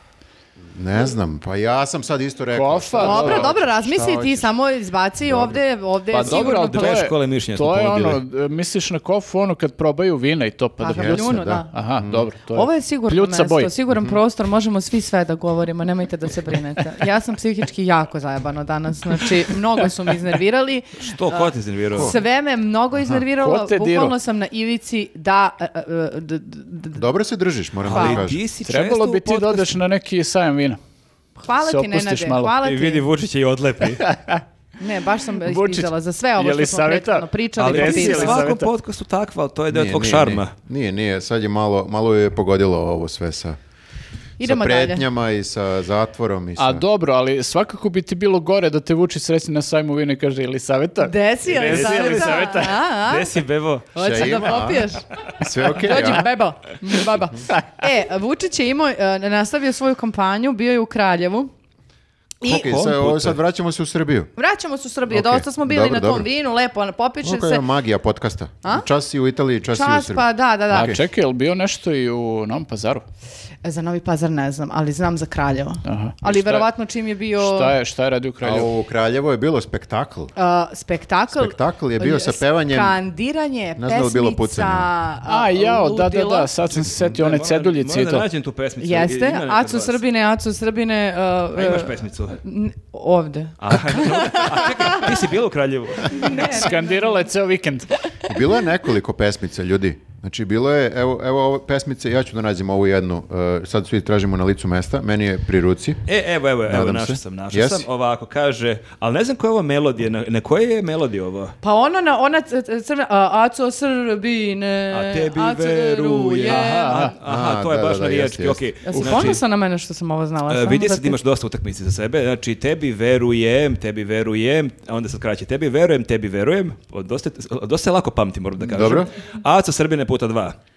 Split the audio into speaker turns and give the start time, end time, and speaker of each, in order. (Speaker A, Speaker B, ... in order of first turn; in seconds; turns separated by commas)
Speaker A: 0.7-4.5, Speaker B: 2.5-3.5, Speaker C: 3.0-7.0, Speaker A: 5.2-5.6, Speaker B: 6.1-13.7, Speaker D: 6.2-8.2, Speaker C: 10.8-11.7, Speaker A: 10.9-12.3, Speaker C: 12.5-27.0, Speaker D: 21.0-22.2, Speaker A: 21.9-22.2, Speaker A: 23.0-23.2, Speaker B: 23.4-24.1, Speaker A: 26.9-28.4, Speaker D: 27.8-29.7, Speaker C: 27.9-28.2, Speaker B: 28.6-30.8, Speaker C: 31.4-33.0, Speaker B: 31.6-32.5, Speaker D: 32.6-34.1, Speaker B: 34.0-34.4, Speaker C: 34.8-38.5, Speaker B: 35.4-38.7, Speaker D: 37.6-40.5, Speaker A: 39.7-43.6, Speaker C: 44.4-45.0, Speaker A: 44.4-46.8, Speaker B: 46.6-52.8, Speaker C: 51.0-53.4, Speaker D: 51.5-53.9, Speaker C: 53.9-55.0, Speaker A: 54.0-56.3, Speaker C: 55.6-61.5, Speaker A: 62.4-64.3, Speaker C: 62.4-62.7, Speaker D: 62.5-63.4, Speaker C: 64.4-67.6, Speaker A: 65.1-66.3, Speaker A: 67.2-71.0, Speaker C: 69.7-71.0, Speaker B: 70.7-73.0, Speaker C: 73.6-77.7, Speaker B: 75.8-76.7, Speaker B: 77.4-78.7, Speaker A: 78.4-80.3, Speaker C: 80.3-86.5, Speaker A: 81.3-83.0, Speaker A: 83.8-84.9, Speaker B: 85.3-88.2, Speaker D: 86.7-90.0, Speaker C: 88.8-95.2, Speaker D: 91.5-92.4, Speaker D: 93.6-96.5, Speaker C: 96.0-97.2, Speaker B: 96.3-97.9, Speaker A: 98.2-106.0, Speaker D: 106.1-111.5, Speaker A: 106.7-107.9, Speaker C: 111.6-117.1, Speaker D: 114.9-119.4, Speaker B: 116.4-117.1, Speaker A: 117.2-118.6, Speaker C: 118.9-121.2, Speaker D: 120.5-130.6, Speaker A: 128.6-129.1